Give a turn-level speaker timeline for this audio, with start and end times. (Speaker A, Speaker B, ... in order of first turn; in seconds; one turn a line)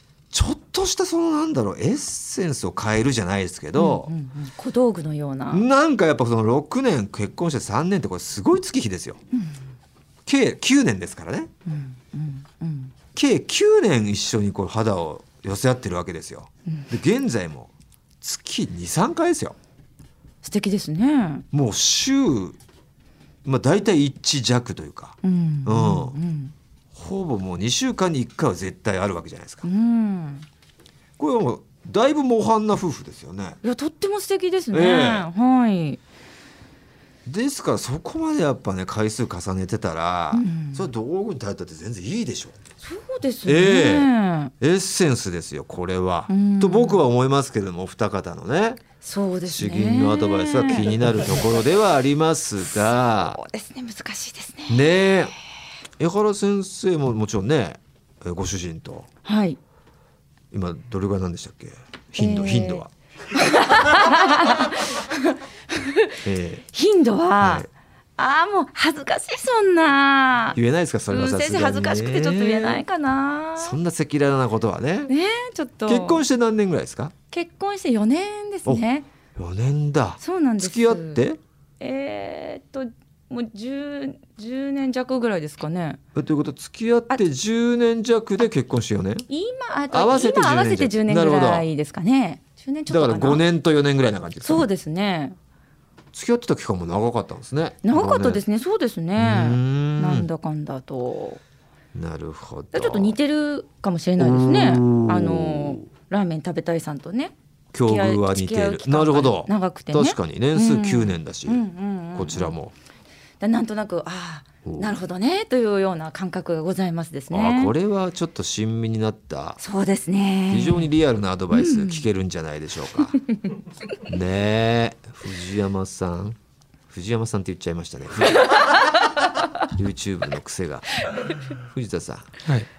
Speaker A: 0.3-4.1
Speaker B: 3.8-5.6
Speaker A: 5.5-9.2
Speaker B: 9.3-9.6
Speaker A: 10.2-11.5
Speaker B: 11.7-12.9
Speaker A: 13.1-19.6
Speaker B: 20.4-21.4
Speaker A: 21.5-22.6
Speaker A: 23.4-26.1
Speaker B: 25.2-26.5
Speaker A: 26.9-29.7
Speaker B: 29.6-30.4
Speaker A: 31.2-33.6
Speaker B: 33.6-36.0
Speaker A: 34.7-35.2
Speaker A: 37.2-42.5
Speaker B: 40.3-40.9
Speaker B: 42.8-44.5
Speaker A: 43.4-44.1
Speaker A: 44.6-48.8
Speaker B: 46.3-47.0
Speaker B: 49.0-51.2
Speaker A: 49.5-53.4
Speaker B: 52.7-54.8
Speaker A: 54.7-55.3
Speaker A: 56.0-59.1
Speaker B: 59.2-59.6
Speaker A: 60.5-62.9
Speaker B: 62.2-62.8
Speaker B: 63.3-66.1
Speaker A: 66.2-66.6
Speaker B: 66.7-70.6
Speaker A: 67.4-67.7
Speaker A: 70.5-72.8
Speaker B: 71.1-73.8
Speaker A: 73.6-75.1
Speaker B: 75.1-76.2
Speaker A: 75.9-77.1
Speaker B: 77.3-79.0
Speaker A: 78.7-81.4
Speaker B: 80.2-81.2
Speaker B: 81.8-86.0
Speaker A: 86.1-89.3
Speaker B: 89.3-93.4
Speaker A: 89.9-91.7
Speaker A: 92.9-94.7
Speaker B: 94.4-95.4
Speaker A: 96.1-98.4
Speaker B: 97.8-101.4
Speaker A: 99.2-100.3
Speaker A: 101.9-103.2
Speaker B: 102.7-107.3
Speaker A: 104.2-105.9
Speaker A: 107.7-111.6
Speaker B: 107.8-112.5
Speaker A: 112.1-112.7
Speaker B: 113.4-117.7
Speaker A: 114.6-114.9
Speaker A: 117.3-119.6
Speaker B: 119.6-120.9
Speaker A: 120.5-123.2
Speaker B: 121.5-122.0
Speaker A: 124.1-126.4
Speaker A: 126.9-128.6
Speaker A: 129.7-131.0
Speaker A: 131.6-132.3